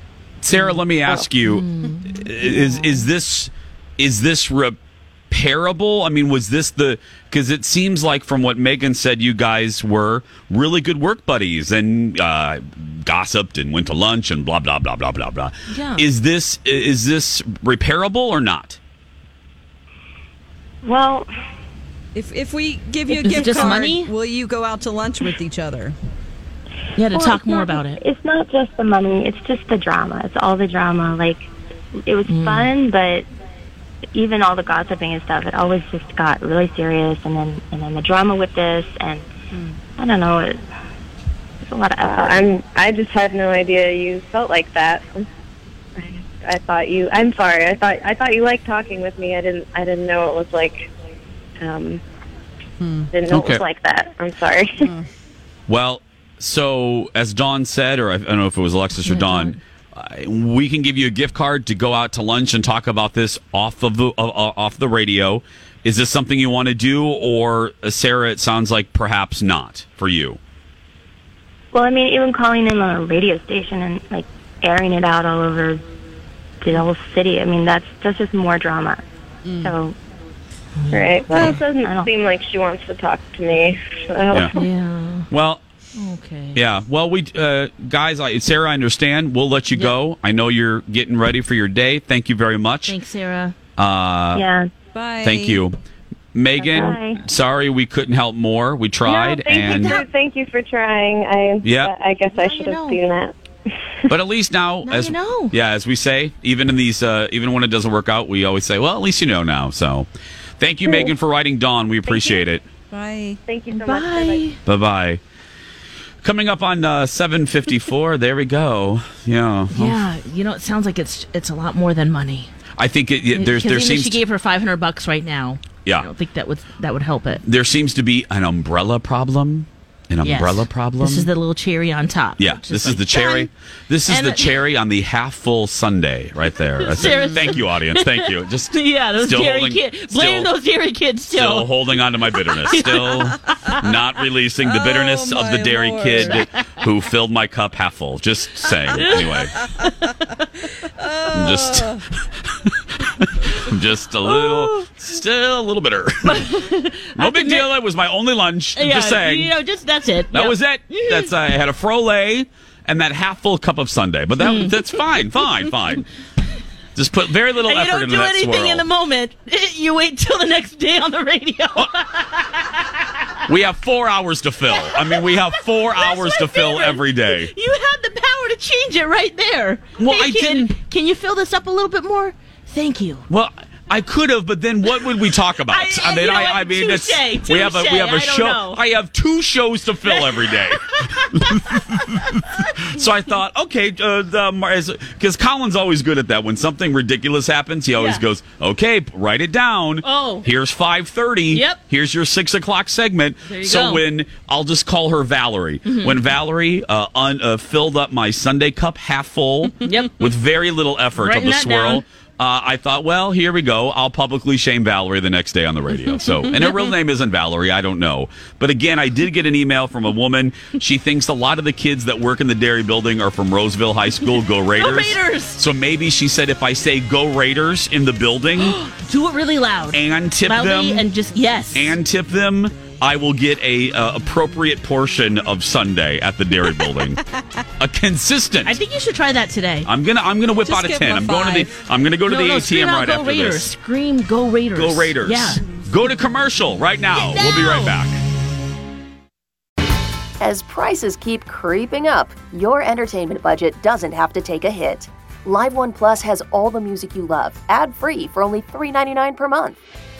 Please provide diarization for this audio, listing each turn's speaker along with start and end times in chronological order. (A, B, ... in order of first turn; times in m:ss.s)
0:00.4-0:04.8 A
0:01.4-0:02.8 B
0:05.3-0:18.8 A
0:15.7-0:16.1 B
0:20.8-0:21.3 C
0:22.1-0:26.0 D
0:23.1-0:23.8 C
0:23.2-0:24.1 B
0:27.0-0:28.0 B
0:27.1-0:31.5 C
0:32.0-0:33.3 C
0:32.3-0:32.7 B
0:34.1-0:39.3 C
0:40.0-0:40.6 C
0:41.6-0:42.4 C
0:42.1-0:45.3 E
0:46.0-0:50.9 E
0:51.6-0:52.0 E
0:52.8-0:53.1 D
0:53.1-0:54.9 E
0:53.3-0:53.6 A
0:55.7-1:10.4 A
0:59.0-0:59.6 B
1:11.7-1:15.8 C
1:16.6-1:19.0 C
1:19.4-1:19.8 D
1:19.6-1:20.0 C
1:20.8-1:21.5 B
1:20.9-1:24.6 E
1:21.4-1:22.1 C
1:24.5-1:25.3 B
1:25.3-1:25.6 A
1:26.0-1:26.6 B
1:26.5-1:33.0 A
1:32.9-1:33.6 B
1:33.8-1:34.4 A
1:34.3-1:34.7 C
1:35.0-1:35.6 D
1:35.2-1:35.8 A
1:36.3-1:40.0 A
1:36.6-1:37.2 C
1:39.0-1:43.3 E
1:39.7-1:40.0 B
1:41.6-1:41.9 A
1:42.4-1:43.0 B
1:44.1-1:50.1 A
1:44.9-1:45.5 B
1:50.6-1:52.6 A
1:50.9-1:51.1 E
1:52.0-1:52.4 E
1:52.9-1:53.4 D
1:53.4-1:54.5 E
1:53.8-1:54.6 B
1:54.6-1:55.2 A
1:56.2-2:00.0 A
1:59.7-2:02.5 B
2:02.8-2:04.2 A
2:03.3-2:07.4 B
2:07.4-2:11.3 A
2:10.2-2:13.5 B
2:12.4-2:20.5 A
2:14.1-2:14.6 B
2:16.8-2:23.8 B
2:17.1-2:17.3 D
2:21.3-2:29.5 A
2:24.6-2:26.5 D
2:28.7-2:30.5 B
2:31.0-2:32.0 D
2:31.3-2:32.0 A
2:32.5-2:36.6 A
2:34.2-2:34.9 B
2:36.2-2:37.7 B
2:37.2-2:39.5 A
2:38.8-2:41.3 B
2:40.3-2:46.0 A
2:44.4-2:44.8 B
2:47.0-2:48.9 A
2:47.6-2:52.8 B
2:53.4-2:57.5 A
2:54.8-3:03.3 B
3:00.0-3:00.7 A
3:03.3-3:48.8 A
3:05.7-3:08.8 B
3:10.1-3:12.6 B
3:18.0-3:18.2 B
3:20.0-3:20.5 B
3:21.5-3:21.8 B
3:23.5-3:24.0 B
3:25.9-3:26.2 B
3:29.8-3:30.3 B
3:31.2-3:32.0 B
3:44.7-3:45.6 B
3:48.6-3:52.0 B
3:49.9-3:51.1 A
3:51.7-3:57.2 A
3:57.8-3:58.8 A
3:58.6-3:59.9 B
3:59.8-4:03.7 A
4:00.6-4:01.7 D
4:02.3-4:05.6 B
4:04.7-4:08.2 A
4:07.1-4:08.0 B
4:10.4-4:19.8 F